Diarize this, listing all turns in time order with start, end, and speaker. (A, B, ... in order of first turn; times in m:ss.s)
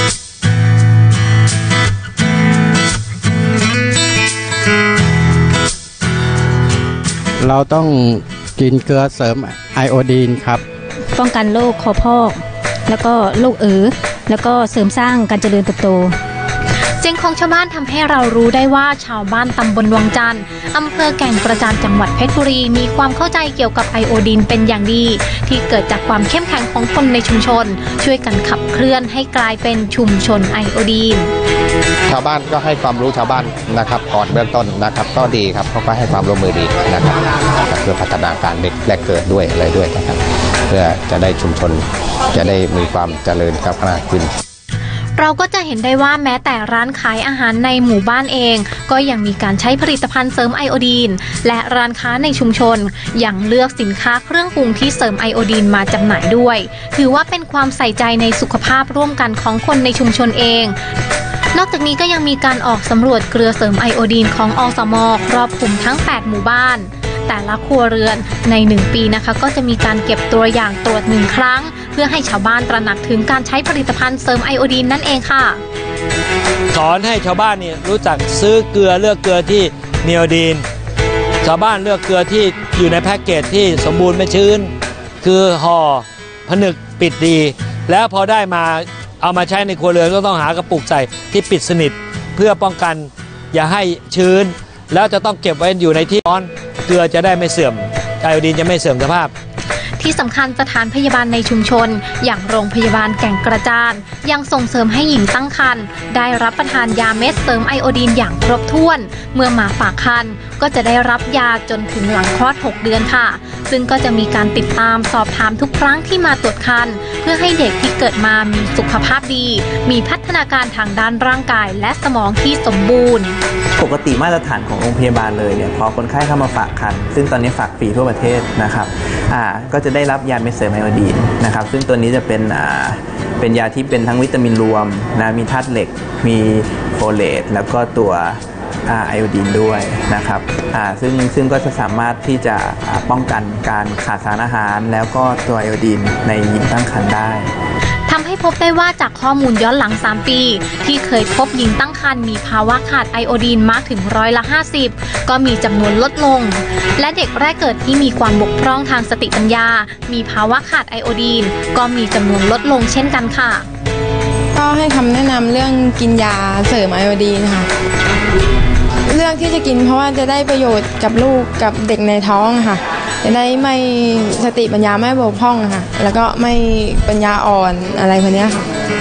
0:07.4-0:10.6 A
0:11.1-0:16.1 B
0:17.0-0:31.3 C
0:32.1-0:44.3 D
0:45.2-1:00.8 C
1:01.5-1:15.6 C
1:16.7-1:20.6 E
1:21.4-1:24.7 E
1:25.2-1:39.3 E
1:40.0-2:03.4 C
2:03.8-2:27.5 F
2:28.1-2:43.6 C
2:44.5-2:47.7 G
2:49.0-2:58.7 G